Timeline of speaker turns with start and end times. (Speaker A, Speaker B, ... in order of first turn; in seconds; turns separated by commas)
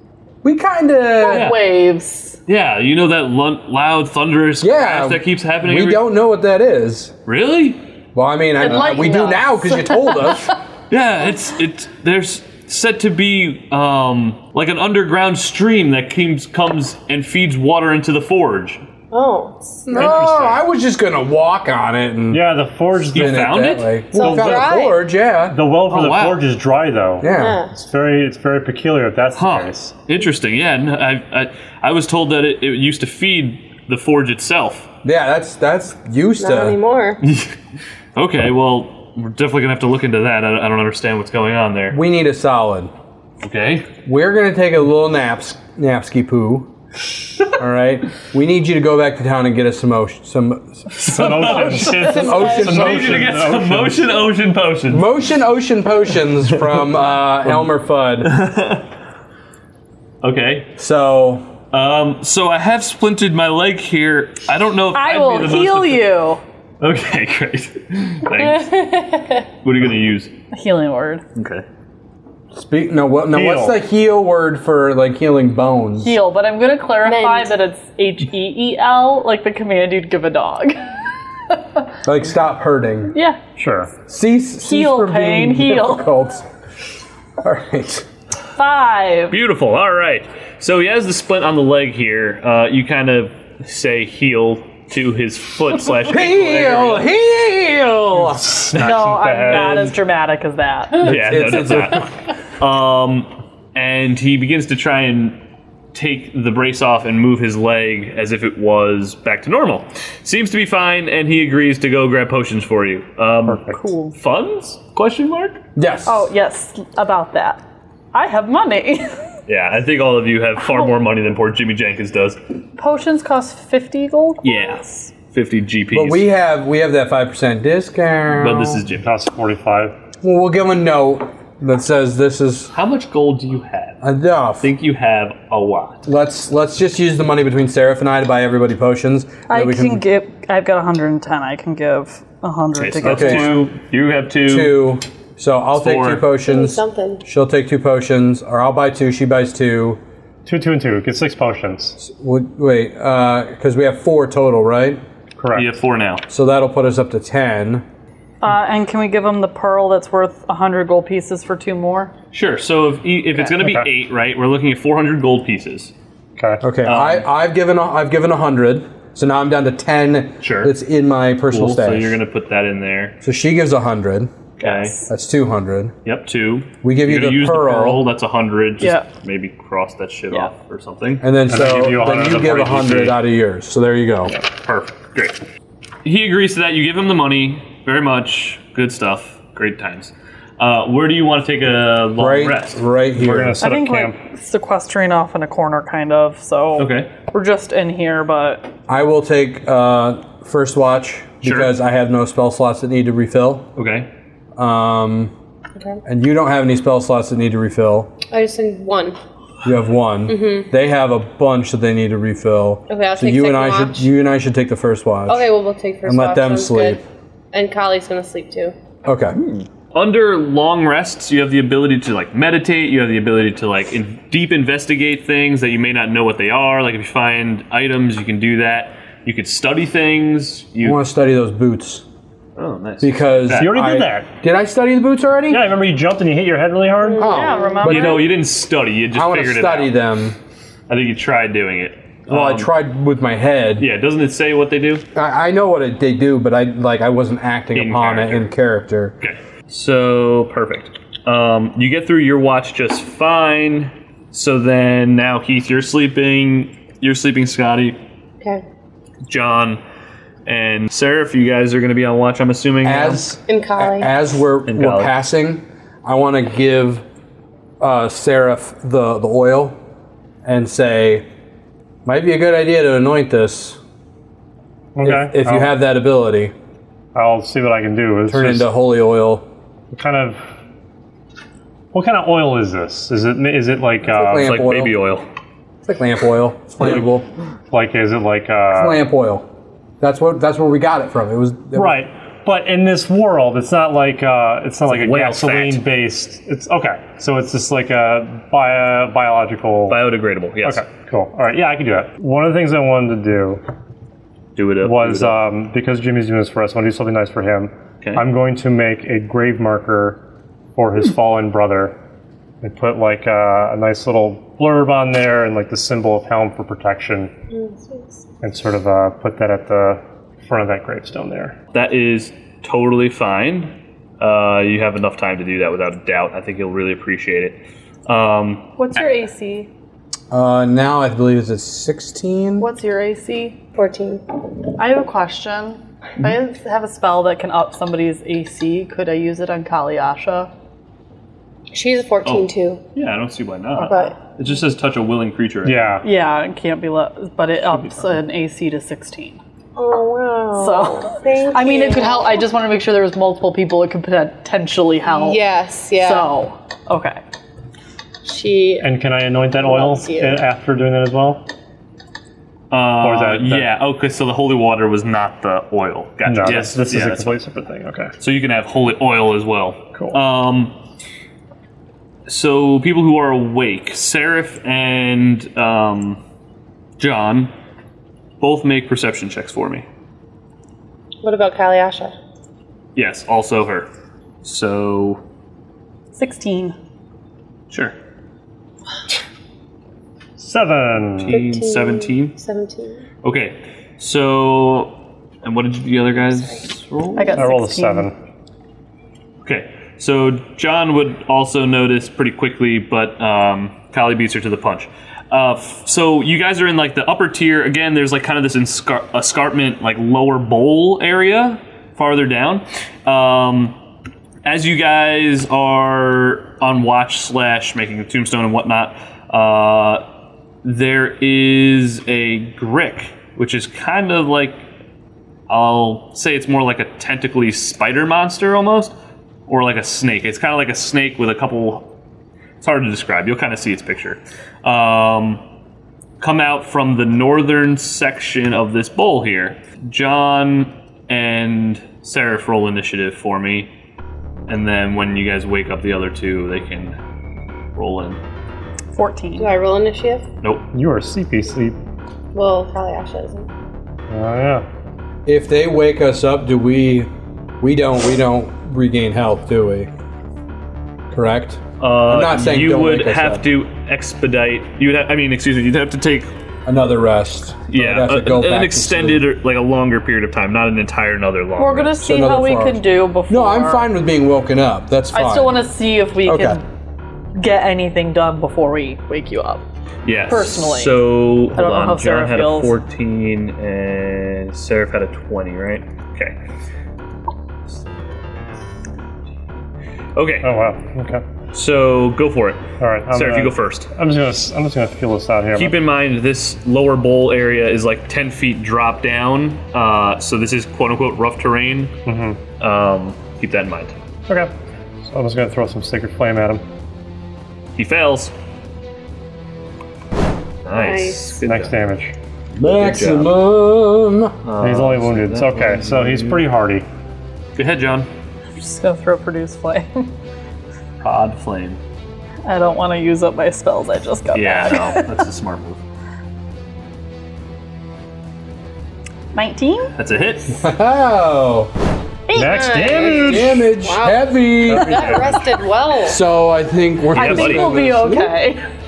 Speaker A: 0.4-1.6, Speaker B: 1.2-2.4, Speaker C: 1.3-1.6, Speaker C: 2.5-6.1, Speaker A: 4.6-7.1, Speaker C: 7.2-7.8, Speaker A: 8.1-10.6, Speaker B: 8.6-10.3, Speaker C: 10.9-18.8, Speaker D: 19.1-19.9, Speaker A: 19.9-22.4, Speaker C: 19.9-20.6, Speaker E: 22.3-23.4, Speaker C: 23.1-23.9, Speaker A: 23.1-25.6, Speaker D: 24.1-25.0, Speaker E: 24.2-24.7, Speaker E: 25.5-29.9, Speaker C: 25.9-26.4, Speaker A: 27.2-27.6, Speaker D: 27.2-27.7, Speaker C: 29.4-34.9, Speaker A: 35.0-36.8, Speaker D: 36.4-37.2, Speaker C: 37.2-37.6, Speaker C: 38.1-42.0, Speaker A: 41.9-42.9, Speaker C: 43.4-43.9, Speaker A: 44.0-46.7, Speaker A: 47.5-51.2, Speaker C: 50.9-55.0, Speaker E: 51.0-54.1, Speaker D: 51.7-53.1, Speaker A: 52.0-53.4, Speaker A: 54.9-58.3, Speaker C: 58.2-58.9, Speaker C: 60.2-60.7, Speaker A: 60.8-61.5, Speaker C: 61.7-66.1, Speaker B: 64.9-66.4, Speaker C: 66.8-70.3, Speaker D: 68.5-69.4, Speaker B: 70.5-71.2, Speaker C: 71.3-71.6, Speaker A: 72.5-76.1, Speaker E: 73.3-73.8, Speaker B: 76.0-80.9, Speaker D: 77.0-77.5, Speaker B: 81.5-81.8, Speaker A: 82.0-83.1, Speaker B: 83.1-83.4, Speaker E: 83.5-83.9, Speaker A: 84.1-86.4, Speaker B: 84.6-86.1, Speaker A: 87.4-88.0, Speaker B: 88.6-89.3, Speaker C: 89.3-97.1, Speaker A: 96.1-98.7, Speaker E: 98.2-100.0, Speaker B: 98.8-101.4, Speaker C: 99.5-99.8, Speaker C: 101.0-105.4, Speaker A: 101.0-102.1, Speaker C: 105.9-115.6, Speaker E: 113.5-113.8, Speaker B: 113.7-114.1, Speaker A: 115.8-116.3, Speaker B: 116.0-117.6, Speaker B: 118.1-119.1, Speaker C: 119.5-122.4, Speaker B: 122.8-125.1, Speaker C: 124.4-126.2, Speaker A: 125.9-128.8, Speaker C: 128.4-129.1, Speaker E: 129.0-129.9, Speaker A: 130.2-132.7, Speaker C: 132.7-134.0, Speaker A: 134.0-134.7, Speaker C: 134.6-136.0, Speaker A: 136.1-140.0, Speaker B: 139.5-143.6, Speaker C: 142.8-144.8, Speaker A: 143.0-143.6, Speaker A: 144.4-150.0, Speaker C: 145.7-146.2, Speaker D: 146.4-147.2, Speaker E: 150.4-152.0, Speaker A: 152.0-155.0, Speaker E: 155.4-155.7, Speaker C: 155.5-156.2, Speaker A: 156.3-157.8, Speaker B: 158.4-162.1, Speaker C: 162.3-165.9, Speaker E: 163.6-163.8, Speaker E: 166.4-166.6, Speaker A: 166.6-172.2, Speaker C: 166.8-167.2, Speaker C: 170.4-170.7, Speaker C: 171.5-173.2, Speaker A: 173.2-174.3, Speaker C: 174.6-175.0, Speaker B: 174.6-175.1, Speaker A: 175.1-175.9, Speaker C: 176.0-181.2, Speaker A: 176.8-178.0, Speaker B: 178.8-179.1, Speaker A: 181.2-184.3, Speaker E: 181.5-183.2, Speaker C: 184.6-185.4, Speaker C: 186.0-192.8, Speaker A: 192.2-193.6, Speaker E: 193.2-194.2, Speaker B: 193.6-198.7, Speaker C: 196.8-197.1, Speaker A: 198.9-203.7, Speaker C: 201.4-201.7, Speaker C: 203.8-204.1, Speaker A: 204.6-205.3, Speaker A: 206.0-208.1, Speaker D: 208.3-209.2, Speaker A: 209.6-215.5, Speaker D: 210.3-210.7, Speaker D: 212.9-214.1, Speaker D: 215.3-217.0, Speaker A: 216.1-217.0, Speaker D: 217.5-218.7, Speaker A: 219.0-219.4, Speaker C: 219.3-231.0, Speaker A: 230.8-232.0, Speaker C: 232.6-233.8, Speaker A: 233.0-235.6, Speaker E: 233.5-234.3, Speaker E: 235.5-237.3, Speaker D: 237.0-238.1, Speaker A: 237.2-238.2, Speaker B: 237.2-238.3, Speaker C: 237.8-239.9, Speaker A: 239.1-240.3, Speaker C: 240.9-242.7, Speaker A: 242.3-243.9, Speaker C: 243.8-245.0, Speaker A: 245.1-249.1, Speaker C: 247.7-248.5, Speaker C: 249.2-258.0, Speaker C: 259.2-259.8, Speaker C: 260.4-263.3, Speaker A: 262.8-267.0, Speaker D: 263.5-264.1, Speaker C: 264.6-265.1, Speaker A: 267.8-269.8, Speaker A: 270.4-271.2, Speaker A: 272.0-273.8, Speaker E: 274.9-275.7, Speaker A: 275.0-276.5, Speaker E: 277.1-278.7, Speaker A: 278.3-279.4, Speaker E: 279.9-280.4, Speaker E: 281.9-284.6, Speaker A: 284.0-285.0, Speaker C: 284.4-285.3, Speaker A: 285.8-287.3, Speaker E: 287.7-289.0, Speaker A: 288.7-289.4, Speaker A: 290.0-292.0, Speaker E: 291.7-300.0, Speaker C: 294.9-295.8, Speaker C: 299.9-300.8, Speaker E: 300.6-303.6, Speaker C: 304.6-305.4, Speaker E: 304.8-310.2, Speaker E: 310.7-311.9, Speaker E: 312.6-317.3, Speaker D: 317.5-318.2, Speaker E: 318.4-321.6, Speaker C: 321.7-328.7, Speaker B: 328.8-329.7, Speaker A: 330.3-332.7, Speaker B: 332.6-333.6, Speaker D: 333.7-334.2, Speaker B: 334.8-340.5, Speaker D: 341.7-342.8, Speaker C: 342.2-346.0, Speaker D: 343.8-344.1, Speaker B: 343.8-344.1, Speaker E: 345.6-346.1, Speaker B: 346.0-349.4, Speaker D: 349.8-352.4, Speaker B: 350.6-355.4, Speaker D: 355.1-356.3, Speaker B: 356.0-357.2, Speaker D: 358.2-358.9, Speaker E: 358.8-361.4, Speaker D: 359.6-360.4, Speaker C: 362.7-367.4, Speaker E: 363.0-363.7, Speaker E: 366.2-368.1, Speaker C: 368.2-370.7, Speaker C: 372.3-376.2, Speaker C: 377.0-377.5, Speaker C: 378.4-379.8, Speaker D: 381.2-382.1, Speaker C: 382.9-383.9, Speaker C: 384.4-385.2, Speaker B: 386.1-386.8, Speaker C: 387.7-387.9, Speaker E: 390.4-391.4, Speaker C: 391.2-392.4, Speaker D: 391.3-393.0, Speaker C: 393.2-397.4, Speaker B: 397.1-398.1, Speaker E: 397.4-398.1, Speaker C: 399.4-413.8, Speaker C: 414.4-420.0, Speaker C: 420.6-424.6, Speaker C: 425.5-428.9, Speaker C: 429.5-431.9, Speaker C: 432.6-435.4, Speaker C: 436.2-443.7, Speaker C: 444.5-446.9, Speaker C: 447.7-448.2, Speaker B: 448.9-449.5, Speaker D: 449.4-450.2, Speaker E: 450.7-451.8, Speaker D: 452.3-453.5, Speaker E: 454.1-454.6, Speaker A: 455.2-457.1, Speaker A: 457.6-459.9, Speaker A: 461.1-463.4, Speaker C: 461.8-466.3, Speaker A: 466.6-469.2, Speaker C: 467.7-471.9, Speaker B: 471.6-473.9, Speaker A: 472.0-475.6, Speaker B: 475.1-476.6, Speaker A: 476.2-476.6, Speaker B: 477.3-479.6, Speaker C: 480.0-486.4, Speaker B: 480.3-481.0, Speaker B: 481.6-482.7, Speaker C: 490.1-490.6, Speaker E: 490.4-491.2, Speaker C: 491.5-493.9, Speaker E: 492.8-495.8, Speaker C: 495.5-501.9, Speaker E: 502.1-502.4, Speaker C: 502.6-504.0, Speaker E: 505.0-506.6, Speaker C: 507.8-508.3, Speaker C: 510.6-511.7, Speaker D: 510.7-511.4, Speaker E: 511.4-512.1, Speaker A: 512.5-514.3, Speaker C: 512.6-513.3, Speaker C: 514.4-516.5, Speaker E: 514.6-516.8, Speaker C: 517.5-518.1, Speaker B: 518.6-520.1, Speaker C: 521.0-521.8, Speaker B: 522.5-525.2, Speaker C: 524.3-525.8, Speaker B: 529.3-529.9, Speaker C: 530.0-530.5, Speaker A: 530.5-531.7, Speaker B: 532.3-533.0, Speaker E: 532.3-533.6, Speaker D: 532.4-536.2, Speaker A: 533.0-535.2, Speaker E: 534.7-535.4, Speaker A: 536.0-538.3, Speaker B: 537.1-538.6, Speaker C: 537.1-537.7